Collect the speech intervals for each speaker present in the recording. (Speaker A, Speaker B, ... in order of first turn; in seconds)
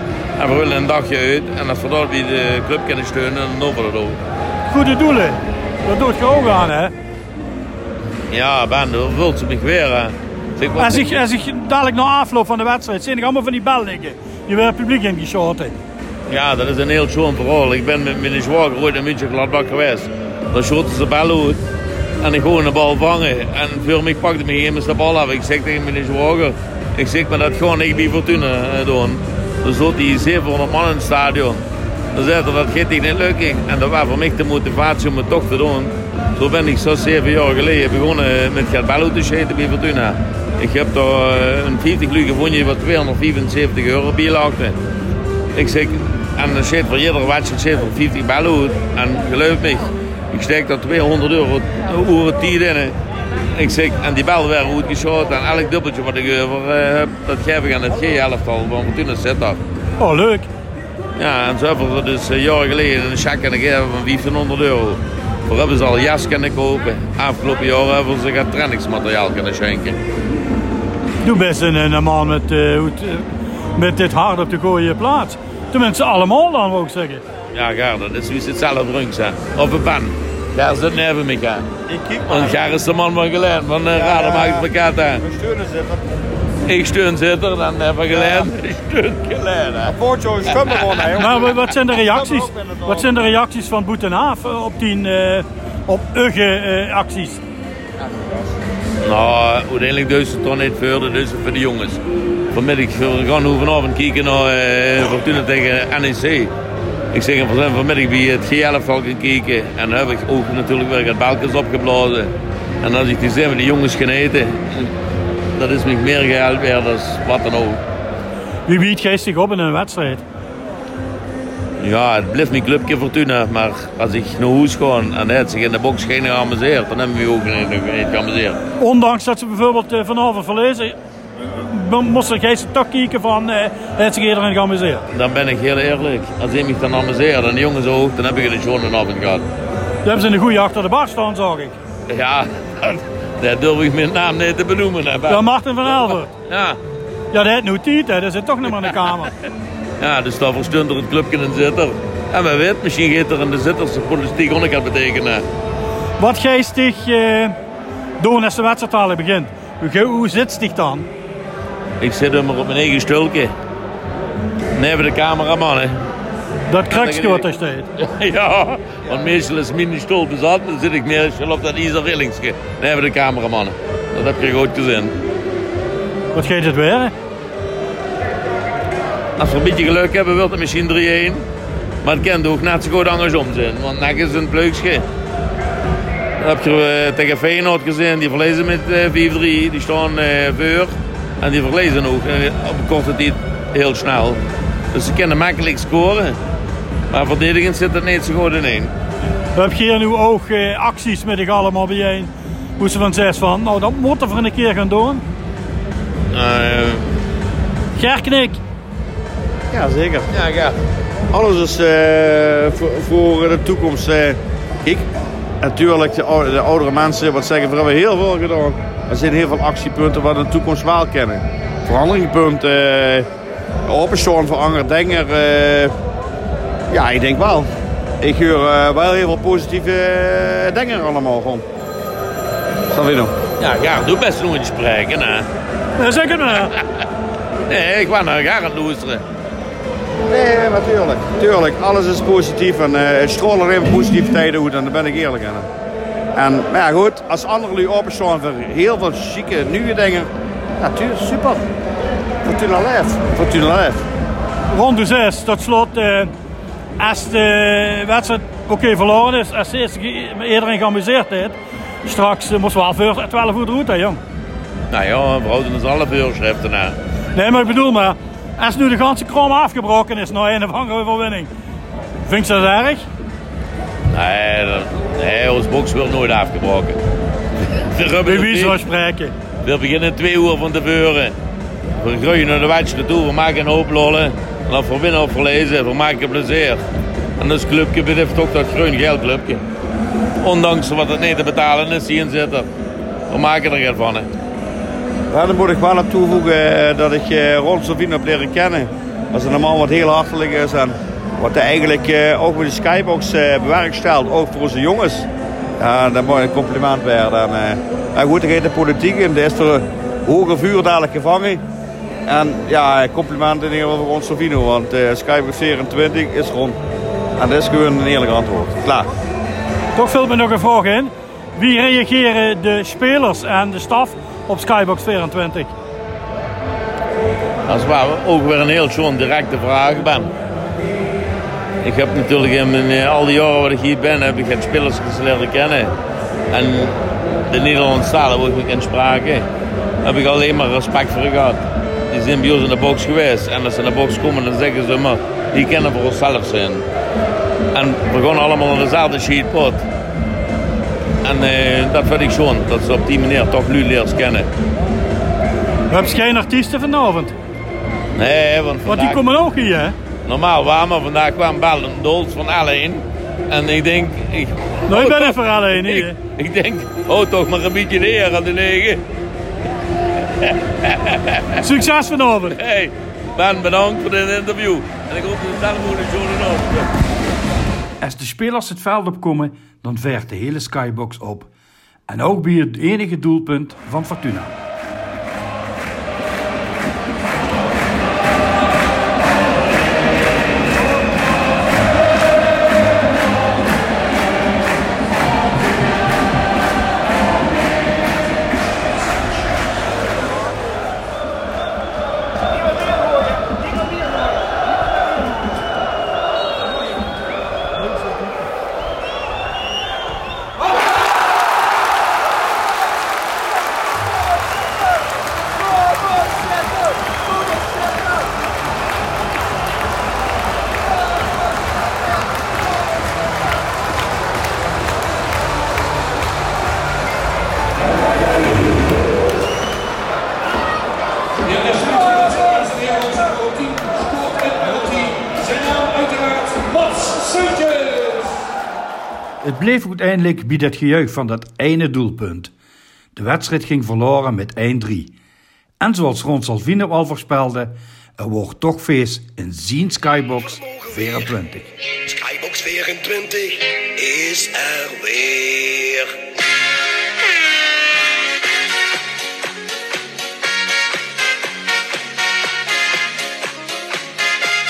Speaker A: 0.4-4.2, 8.3-11.2, 16.3-21.6, 22.2-44.8, 45.5-52.9, 53.5-59.6, 61.1-70.0, 77.5-81.7, 82.3-85.2, 86.7-90.0, 90.5-91.1, 99.0-102.0, 102.5-106.5, 107.1-114.9, 115.6-117.8, 121.8-128.6, 135.1-139.4, 142.1-146.8, 150.0-155.4, 162.0-163.5, 164.8-166.1, 166.9-175.1, 179.4-181.5, 182.0-185.1, 186.4-194.4, 194.9-196.4, 197.1-198.9, 206.3-207.1, 210.3-210.8, 233.6-235.5, 237.7-239.2, 264.9-267.0, 274.1-277.0, 277.7-278.8, 279.6-281.3, 281.9-286.8, 287.4-289.6, 290.4-292.7, 293.3-294.3, 327.7-330.3, 331.8-335.9, 336.5-337.0, 337.5-339.5, 340.0-346.9, 347.7-349.9, 351.2-354.5, 358.1-359.2, 360.2-369.0, 370.4-371.6, 372.5-376.9
Speaker B: 4.7-6.9, 10.8-15.8, 60.0-60.5, 71.2-77.2, 91.2-97.4, 118.7-120.2, 128.8-130.9, 131.5-135.0, 140.0-141.8, 145.3-146.3, 147.3-149.3, 156.2-157.5, 158.2-161.1, 166.7-167.9, 176.3-177.1, 199.5-205.2, 208.0-208.6, 236.0-236.7, 254.7-256.3, 257.0-264.2, 267.3-271.5, 272.2-273.1, 278.2-279.3, 319.9-325.7, 355.9-357.3, 358.9-359.9, 364.9-366.2, 371.6-372.6, 434.4-435.4, 437.0-437.8
Speaker C: 81.9-82.6, 83.9-86.0, 88.1-88.5, 89.8-91.5, 92.0-93.1, 209.7-210.3, 211.3-215.1, 215.6-223.3, 223.9-225.9, 226.9-227.7, 228.2-231.6, 232.9-233.3, 240.3-245.7, 246.3-251.7, 252.4-254.0, 295.3-305.3, 305.8-311.6, 312.2-316.8, 317.4-319.1
Speaker D: 378.0-381.5, 382.1-384.5, 439.4-442.5, 443.1-445.1, 445.8-451.7
Speaker E: 452.0-456.1